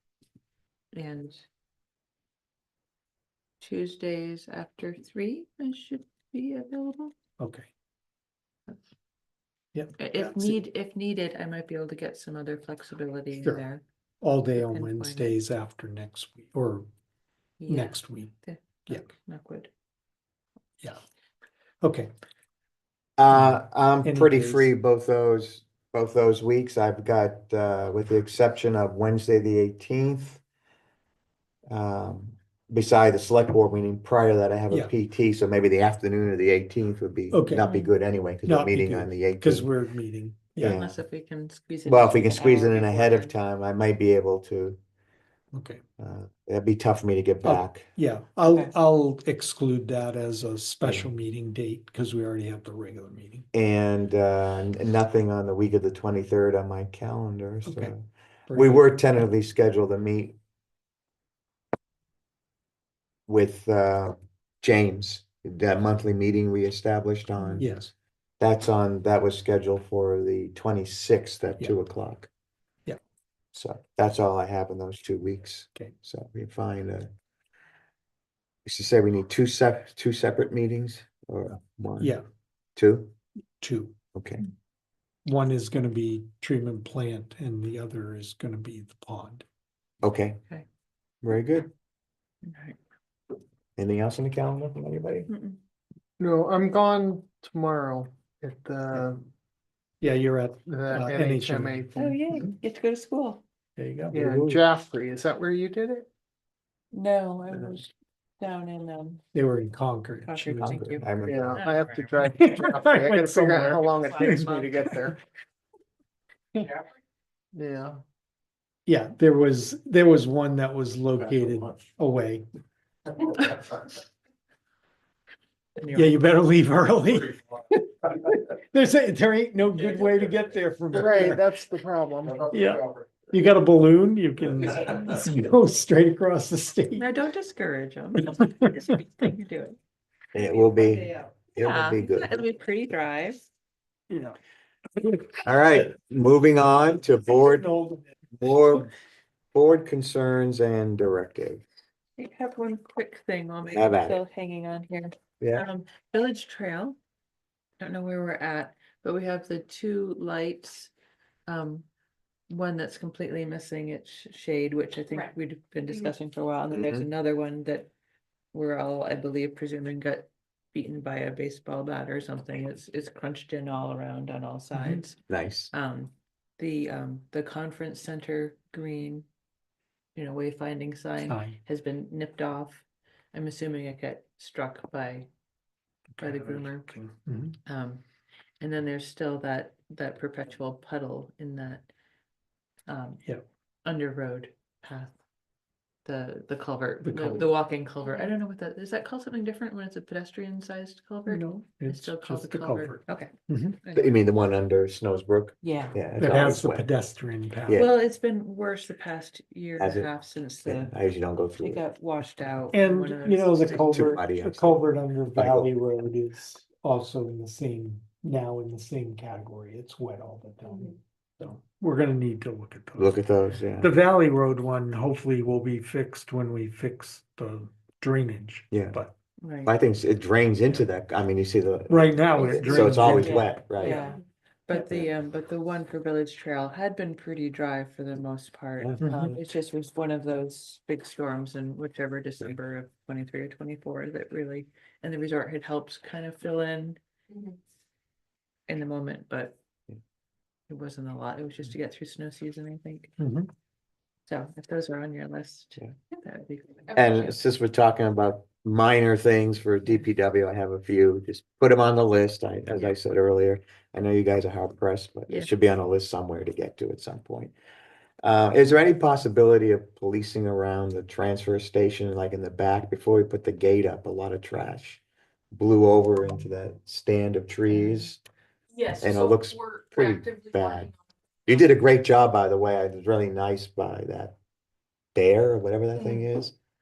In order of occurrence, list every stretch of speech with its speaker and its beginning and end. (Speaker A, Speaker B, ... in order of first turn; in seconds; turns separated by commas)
Speaker A: 0.9-1.4, Speaker A: 3.6-7.2, Speaker B: 7.4-7.7, Speaker B: 9.8-10.5, Speaker A: 10.0-13.8, Speaker B: 14.2-16.9, Speaker A: 14.6-15.3, Speaker A: 17.6-19.7, Speaker B: 17.7-18.4, Speaker B: 21.8-22.1, Speaker C: 23.2-30.4, Speaker B: 23.3-24.7, Speaker C: 31.7-39.7, Speaker B: 37.3-37.7, Speaker A: 37.6-37.9, Speaker B: 38.4-40.8, Speaker C: 40.6-41.0, Speaker A: 40.6-43.3, Speaker C: 41.9-44.8, Speaker B: 45.5-45.8, Speaker C: 46.0-47.9, Speaker B: 47.5-53.5, Speaker A: 48.5-48.7, Speaker C: 53.5-60.4, Speaker B: 57.7-57.9, Speaker B: 58.5-58.8, Speaker C: 63.3-67.7, Speaker B: 67.6-67.9, Speaker C: 68.4-72.3, Speaker C: 73.5-77.1, Speaker C: 78.7-82.2, Speaker C: 82.8-83.1, Speaker B: 83.6-84.0, Speaker C: 84.2-84.4, Speaker B: 85.2-89.5, Speaker C: 90.0-90.4, Speaker C: 91.2-91.7, Speaker A: 92.4-92.8, Speaker C: 93.8-95.3, Speaker A: 95.3-95.6, Speaker D: 96.2-99.2, Speaker B: 100.0-101.8, Speaker D: 100.7-102.2, Speaker A: 102.0-103.4, Speaker B: 103.8-104.6, Speaker D: 104.1-106.1, Speaker A: 106.9-109.2, Speaker B: 109.3-110.9, Speaker A: 110.2-112.3, Speaker C: 110.7-111.7, Speaker D: 111.2-115.2, Speaker B: 112.2-115.1, Speaker A: 114.0-114.8, Speaker D: 116.5-116.8, Speaker D: 117.5-118.0, Speaker B: 118.9-122.5, Speaker A: 125.8-126.2, Speaker B: 125.9-127.4, Speaker B: 128.1-131.4, Speaker D: 130.9-132.5, Speaker B: 132.5-137.1, Speaker A: 137.0-139.8, Speaker C: 140.3-142.3, Speaker A: 140.6-143.4, Speaker B: 144.1-144.4, Speaker C: 145.4-147.7, Speaker B: 147.5-148.0, Speaker C: 148.3-148.9, Speaker C: 149.5-151.6, Speaker A: 152.2-157.0, Speaker C: 153.7-154.2, Speaker C: 155.4-155.7, Speaker A: 157.8-160.9, Speaker A: 161.5-161.9, Speaker A: 162.5-167.9, Speaker C: 166.7-167.1, Speaker A: 168.5-175.2, Speaker B: 174.7-175.0, Speaker C: 175.3-175.7, Speaker A: 175.7-179.3, Speaker A: 180.2-185.3, Speaker B: 181.3-181.6, Speaker B: 186.2-187.6, Speaker A: 186.2-186.9, Speaker A: 187.7-188.0, Speaker A: 188.6-191.9, Speaker A: 192.9-193.2, Speaker A: 193.8-195.2, Speaker A: 196.1-203.3, Speaker B: 197.0-197.5, Speaker E: 198.0-198.3, Speaker B: 201.3-203.8, Speaker A: 203.8-204.1, Speaker C: 203.9-206.9, Speaker A: 205.6-206.0, Speaker B: 206.2-207.8, Speaker A: 207.7-210.9, Speaker C: 209.8-210.1, Speaker C: 210.7-211.8, Speaker A: 211.6-214.0, Speaker B: 212.7-223.2, Speaker C: 213.8-214.8, Speaker C: 215.4-215.7, Speaker C: 223.0-223.9, Speaker B: 223.8-229.1, Speaker C: 228.7-229.0, Speaker A: 229.4-229.8, Speaker C: 229.7-234.1, Speaker B: 231.9-233.5, Speaker A: 232.4-247.0, Speaker B: 239.0-239.3, Speaker E: 247.3-247.6, Speaker A: 248.7-249.6, Speaker A: 250.7-253.1, Speaker B: 253.2-253.5, Speaker A: 254.3-257.2, Speaker E: 256.9-257.2, Speaker C: 256.9-267.6, Speaker C: 268.2-275.0, Speaker C: 275.5-278.2, Speaker A: 277.7-278.1, Speaker E: 278.7-281.0, Speaker C: 279.0-280.9, Speaker C: 281.5-284.4, Speaker C: 285.1-286.5, Speaker E: 285.9-286.3